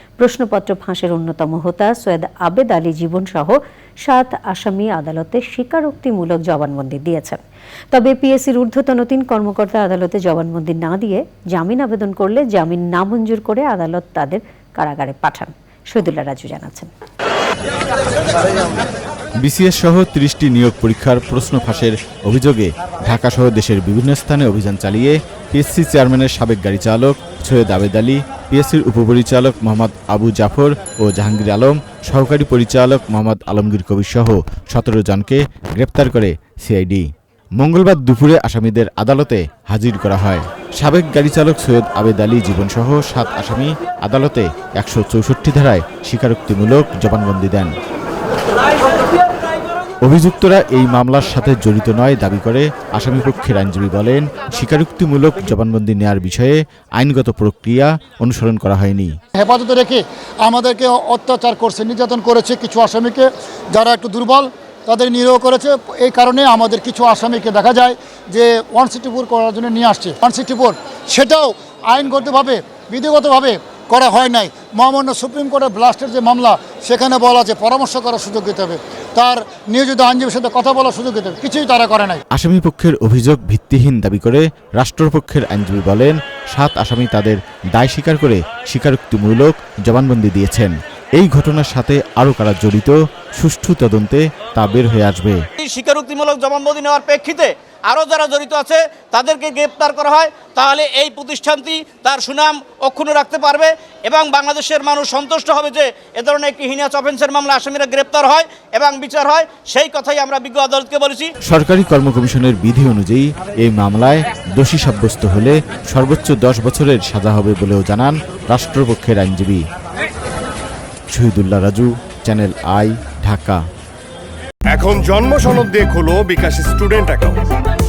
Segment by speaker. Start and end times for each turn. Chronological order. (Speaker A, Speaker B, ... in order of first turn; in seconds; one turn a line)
Speaker A: 0.2-7.4
Speaker A: 7.9-16.9
Speaker B: 19.4-37.1
Speaker B: 37.6-47.7
Speaker B: 50.0-59.1
Speaker C: 59.3-82.2
Speaker B: 82.3-95.4
Speaker D: 95.6-111.3
Speaker B: 111.4-119.6
Speaker B: 121.1-123.6
Speaker E: 124.7-127.5